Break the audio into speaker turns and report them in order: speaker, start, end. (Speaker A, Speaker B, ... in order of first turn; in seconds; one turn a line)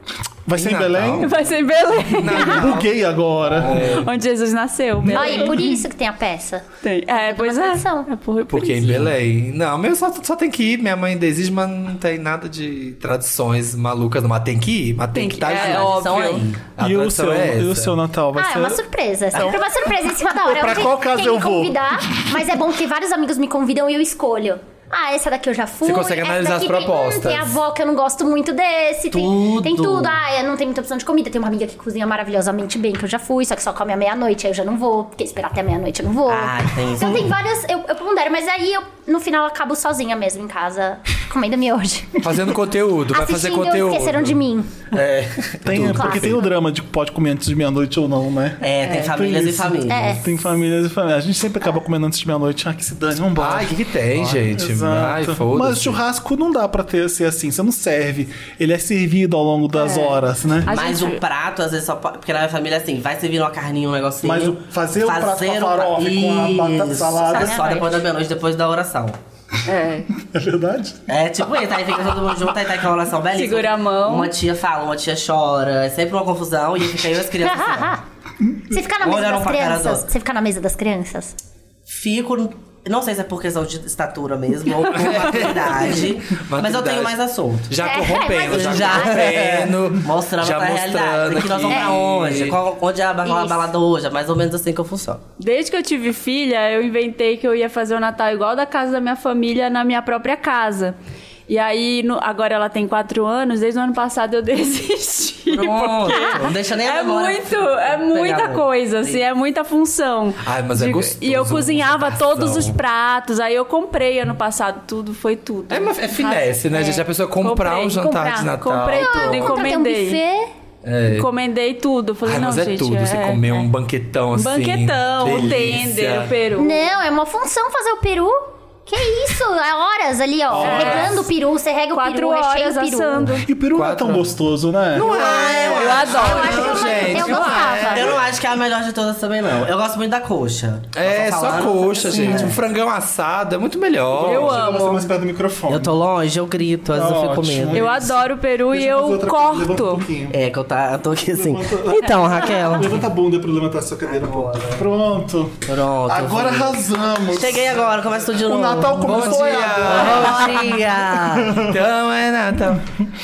Speaker A: 0.5-1.3
Speaker B: 0.6-1.3
Speaker C: 1.2-2.7
Speaker B: 2.1-2.9
Speaker A: 2.2-4.0
Speaker B: 3.5-4.1
Speaker C: 3.7-5.8
Speaker D: 5.1-6.7
Speaker A: 5.2-5.6
Speaker C: 6.8-9.1
Speaker D: 7.2-8.1
Speaker B: 8.5-17.9
Speaker C: 15.1-16.4
Speaker E: 15.4-16.6
Speaker A: 16.8-18.8
Speaker D: 18.3-42.2
Speaker A: 19.3-19.6
Speaker A: 20.3-22.2
Speaker B: 25.8-27.6
Speaker E: 29.1-30.2
Speaker E: 36.3-37.3
Speaker B: 42.2-44.4
Speaker D: 43.1-44.7
Speaker B: 44.9-46.4
Speaker A: 45.6-60.7
Speaker D: 45.7-46.4
Speaker E: 48.6-50.1
Speaker D: 49.9-50.4
Speaker B: 53.4-56.0
Speaker C: 59.7-61.2
Speaker E: 60.7-69.2
Speaker A: 64.2-67.8
Speaker D: 67.4-67.8
Speaker C: 69.7-70.1
Speaker A: 70.1-71.0
Speaker E: 71.1-78.0
Speaker C: 73.3-74.3
Speaker D: 77.4-78.0
Speaker D: 78.7-81.3
Speaker E: 79.0-80.0
Speaker E: 81.9-87.7
Speaker B: 84.9-87.2
Speaker B: 87.7-92.6
Speaker D: 87.8-89.3
Speaker E: 88.4-95.2
Speaker D: 91.7-92.0
Speaker D: 93.2-93.6
Speaker C: 95.4-100.9
Speaker C: 101.5-120.2
Speaker E: 105.5-109.2
Speaker B: 110.4-112.8
Speaker B: 115.7-119.3
Speaker D: 118.0-120.5
Speaker E: 119.3-119.6
Speaker B: 120.8-121.3
Speaker C: 121.1-123.7
Speaker B: 122.2-126.3
Speaker C: 124.3-126.8
Speaker D: 126.6-133.3
Speaker A: 130.5-131.2
Speaker C: 130.6-131.2
Speaker B: 130.7-131.1
Speaker C: 131.9-133.4
Speaker B: 133.4-134.3
Speaker A: 133.4-135.1
Speaker E: 134.9-142.6
Speaker B: 134.9-138.2
Speaker C: 135.5-137.8
Speaker D: 136.1-138.1
Speaker B: 140.9-144.6
Speaker A: 144.1-146.0
Speaker C: 144.2-145.1
Speaker E: 145.7-147.9
Speaker A: 146.9-150.4
Speaker C: 147.7-150.1
Speaker E: 150.3-153.0
Speaker A: 151.3-161.8
Speaker C: 152.0-152.8
Speaker E: 154.0-154.8
Speaker E: 155.7-161.6
Speaker B: 159.0-160.8
Speaker B: 161.6-162.8